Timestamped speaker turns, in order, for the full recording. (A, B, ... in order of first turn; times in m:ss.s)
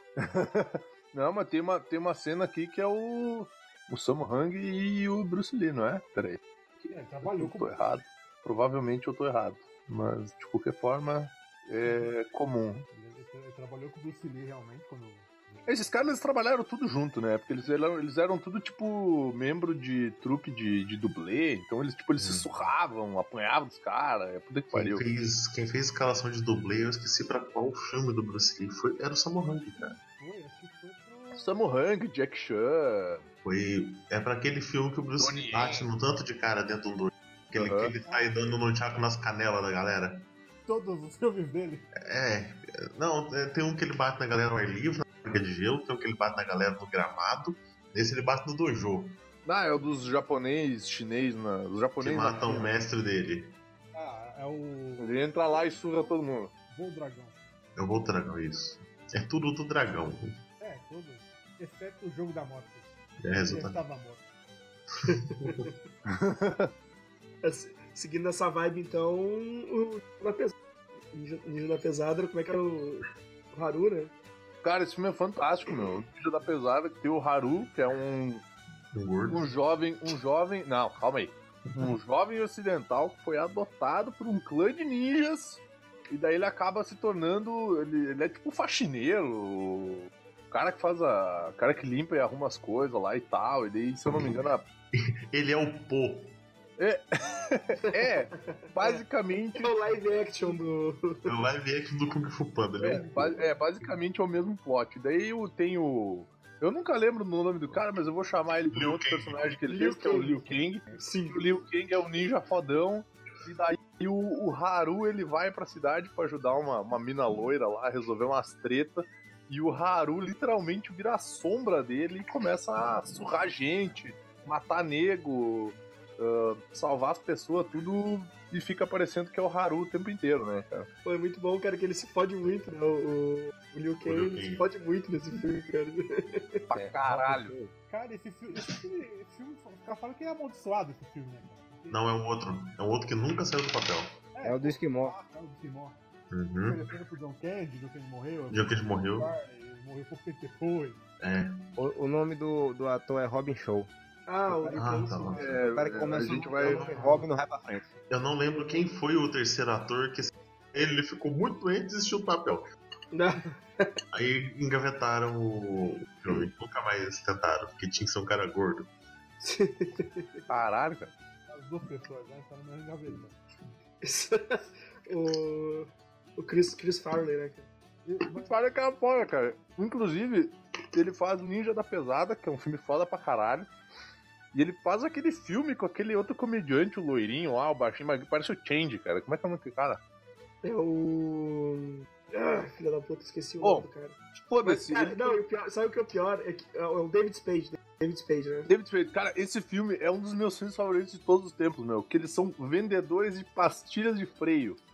0:00.2-0:12.8 A
0:06.9-0:07.8 B
0:12.9-0:15.8 B
0:15.6-0:25.1 A
0:22.2-0:22.5 C
0:24.7-0:30.0 C
0:30.2-0:31.6 B
0:31.3-0:33.3 A
0:33.4-0:40.3 C
0:35.2-0:35.9 A
0:37.5-0:37.9 A
0:38.0-0:38.6 B
0:40.6-0:41.9 B
0:42.0-0:49.2 C
0:49.4-0:52.7 A
0:52.0-0:53.5 C
0:53.9-0:57.4 B
0:55.0-0:56.5 A
0:57.8-1:00.4 C
1:00.6-1:04.2 B
1:03.2-1:03.8 C
1:05.4-1:05.7 C
1:06.1-1:06.7 A
1:07.4-1:10.6 D
1:11.1-1:14.1 D
1:14.6-1:18.4 A
1:18.9-1:19.5 C
1:19.3-1:34.6 A
1:34.1-1:34.4 C
1:34.9-1:36.3 C
1:36.8-1:39.7 A
1:37.9-1:38.1 D
1:38.8-1:39.0 D
1:39.6-1:41.3 D
1:41.2-1:43.3 C
1:42.8-2:10.9 A
1:43.0-1:43.4 B
1:48.7-1:49.6 C
1:49.7-1:51.4 D
2:11.0-2:16.6 D
2:14.0-2:14.7 C
2:16.7-2:17.6 A
2:16.7-2:17.7 E
2:17.9-2:22.0 B
2:21.9-2:24.1 C
2:24.3-2:26.0 B
2:24.4-2:25.1 E
2:26.3-2:26.8 C
2:26.6-2:31.0 B
2:28.5-2:29.3 C
2:31.2-2:31.5 C
2:31.8-2:33.9 E
2:34.2-2:35.5 D
2:34.5-2:34.8 E
2:34.7-2:35.3 B
2:34.7-2:35.6 C
2:35.3-2:37.0 A
2:35.7-2:37.9 E
2:36.4-2:37.2 C
2:38.1-2:42.6 C
2:43.1-2:43.9 D
2:44.1-2:48.9 C
2:49.4-2:50.4 D
2:50.5-2:51.1 A
2:51.5-2:53.4 B
2:54.0-2:57.7 D
2:58.0-2:58.5 B
2:58.3-3:03.7 A
3:04.5-3:10.0 A
3:10.6-3:18.7 D
3:13.6-3:15.4 A
3:18.7-3:24.8 A